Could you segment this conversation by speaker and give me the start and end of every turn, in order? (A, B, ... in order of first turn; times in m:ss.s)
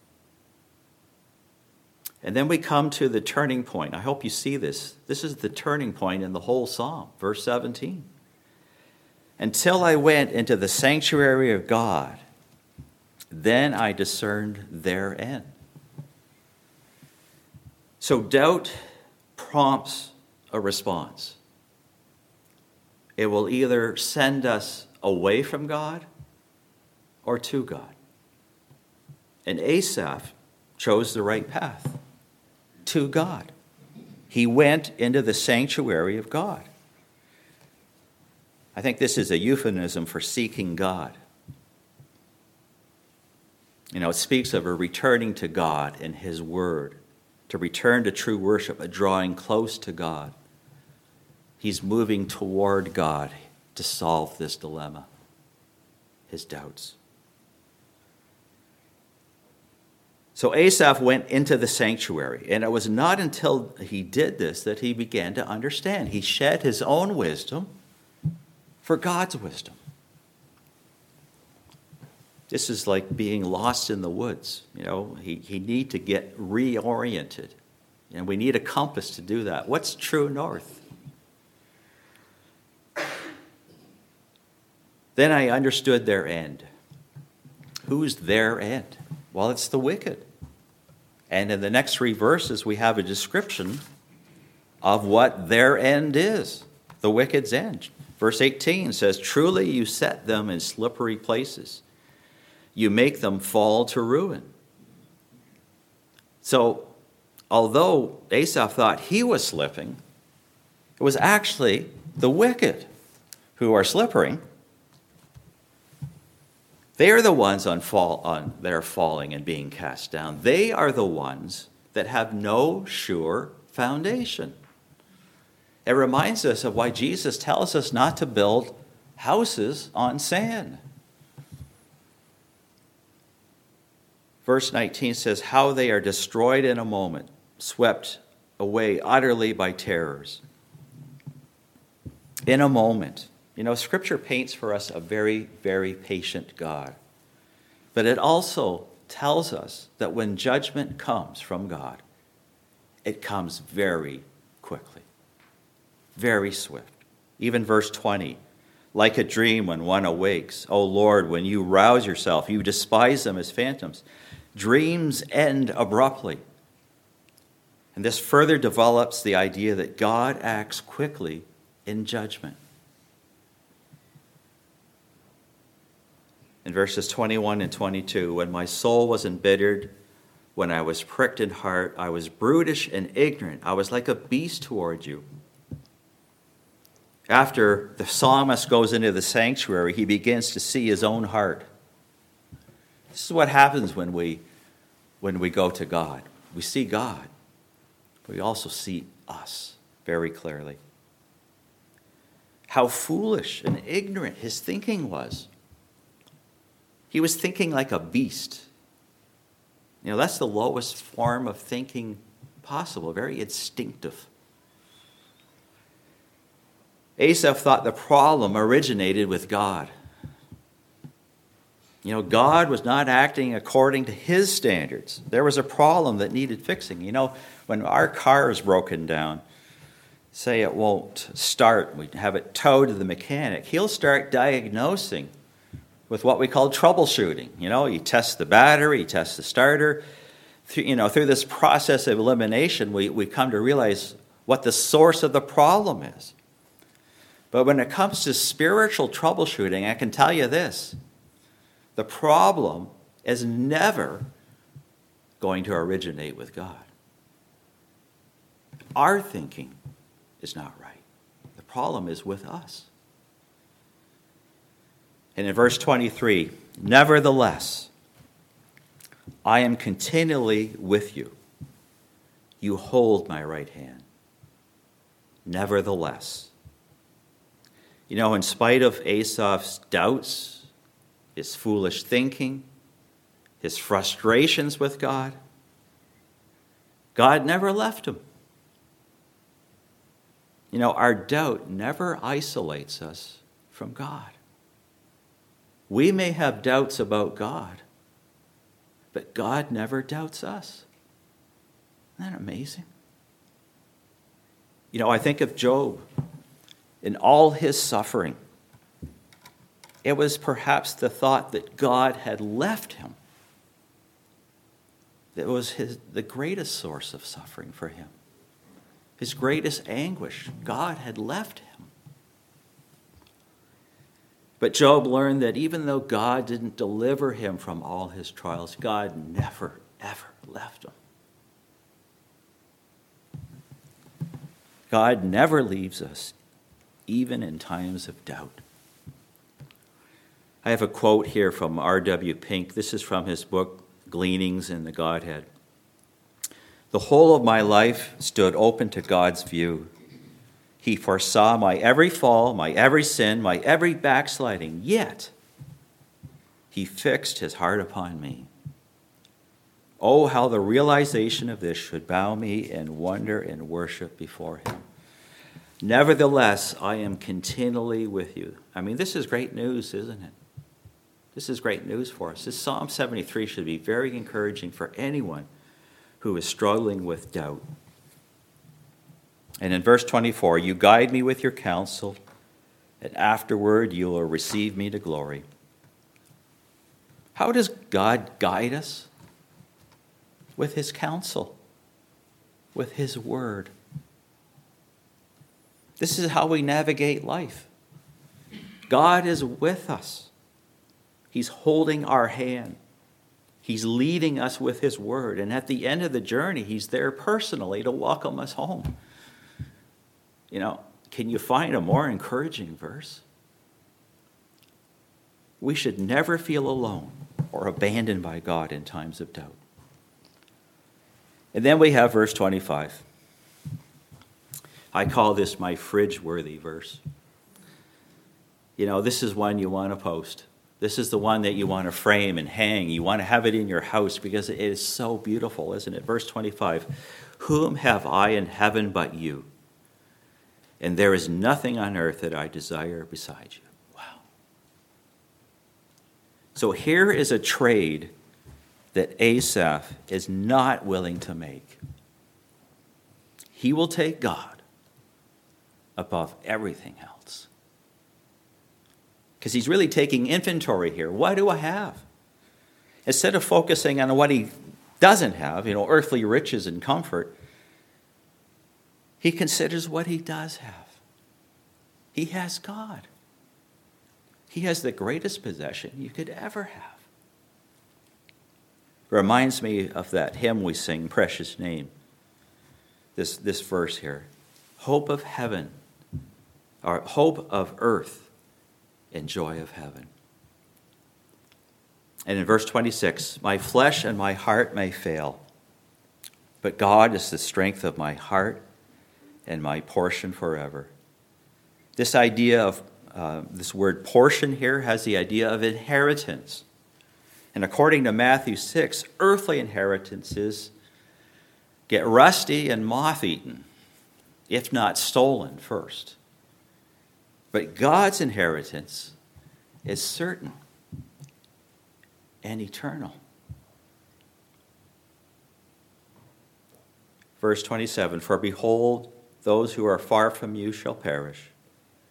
0:02.2-0:08.1 A
0:09.4-0:12.2 A
0:13.3-0:15.5 A
0:18.0-0:18.8 A
0:19.4-0:21.4 A
0:23.2-0:26.0 A
0:27.2-0:27.9 A
0:29.4-0:32.0 A
0:32.8-0:33.5 A
0:34.3-0:36.7 A
0:38.7-0:41.2 A
0:43.9-0:50.3 A
0:51.6-0:55.1 A
0:56.3-0:57.0 A
1:00.4-1:07.7 A
1:08.8-1:09.8 A
1:12.5-1:17.6 A
1:18.1-1:20.8 A
1:25.2-1:26.6 A
1:27.8-1:30.2 A
1:31.3-1:33.8 A
1:34.8-1:41.8 A
1:42.7-1:44.5 A
1:46.4-1:46.9 A
1:47.5-1:50.0 A
1:51.0-1:52.9 A
1:53.6-1:54.4 A
1:57.0-2:04.6 A
2:05.8-2:10.8 A
2:14.4-2:20.4 A
2:22.5-2:27.0 A
2:27.9-2:32.0 A
2:33.0-2:35.0 A
2:36.2-2:38.4 A
2:38.9-2:46.4 A
2:47.9-2:52.6 A
2:56.6-2:59.9 A
3:00.5-3:05.2 A
3:07.3-3:11.6 A
3:13.1-3:14.4 A
3:15.2-3:17.3 A
3:18.2-3:20.8 A
3:22.7-3:25.5 A
3:27.1-3:28.7 A
3:30.0-3:34.3 A
3:37.2-3:39.9 A
3:42.0-3:49.4 A
3:50.3-3:55.3 A
3:56.1-4:00.0 A
4:00.7-4:06.3 A
4:07.5-4:11.0 A
4:12.0-4:14.2 A
4:15.4-4:16.9 A
4:19.0-4:19.8 A
4:20.4-4:21.0 A
4:21.5-4:22.9 A
4:25.4-4:27.9 A
4:29.4-4:31.3 A
4:32.6-4:34.0 A
4:35.4-4:36.5 A
4:38.1-4:40.7 A
4:41.4-4:42.7 A
4:43.6-4:45.4 A
4:47.1-4:48.2 A
4:50.7-4:54.4 A
4:55.9-4:57.8 A
4:59.1-5:00.9 A
5:02.2-5:02.9 A
5:04.9-5:06.0 A
5:07.0-5:08.4 A
5:10.0-5:13.2 A
5:15.3-5:18.1 A
5:19.2-5:21.9 A
5:24.6-5:30.9 A
5:34.9-5:36.3 A
5:37.1-5:38.6 A
5:40.6-5:45.5 A
5:46.9-5:49.9 A
5:50.8-5:55.3 A
5:56.7-5:58.5 A
6:00.0-6:04.8 A
6:05.8-6:10.3 A
6:11.3-6:15.5 A
6:16.2-6:17.6 A
6:19.6-6:22.2 A
6:23.0-6:25.4 A
6:27.3-6:29.1 A
6:30.6-6:31.6 A
6:32.7-6:33.7 A
6:36.0-6:37.7 A
6:38.9-6:40.3 A
6:41.3-6:42.8 A
6:43.6-6:49.0 A
6:50.5-6:53.2 A
6:55.6-6:59.6 A
7:01.5-7:03.0 A
7:04.9-7:07.0 A
7:08.8-7:19.5 A
7:20.8-7:24.2 A
7:26.5-7:28.1 A
7:28.9-7:31.8 A
7:33.5-7:34.6 A
7:36.0-7:37.5 A
7:39.4-7:42.0 A
7:43.0-7:47.3 A
7:49.2-7:51.0 A
7:52.1-7:53.1 A
7:54.5-7:57.1 A
7:59.1-8:01.9 A
8:03.2-8:05.7 A
8:06.8-8:08.3 A
8:09.1-8:10.1 A
8:12.2-8:15.4 A
8:16.6-8:18.6 A
8:19.5-8:20.9 A
8:22.0-8:26.6 A
8:27.5-8:30.7 A
8:31.9-8:33.6 A
8:34.5-8:36.2 A
8:37.5-8:39.1 A
8:39.8-8:40.6 A
8:42.4-8:43.2 A
8:47.4-8:51.5 A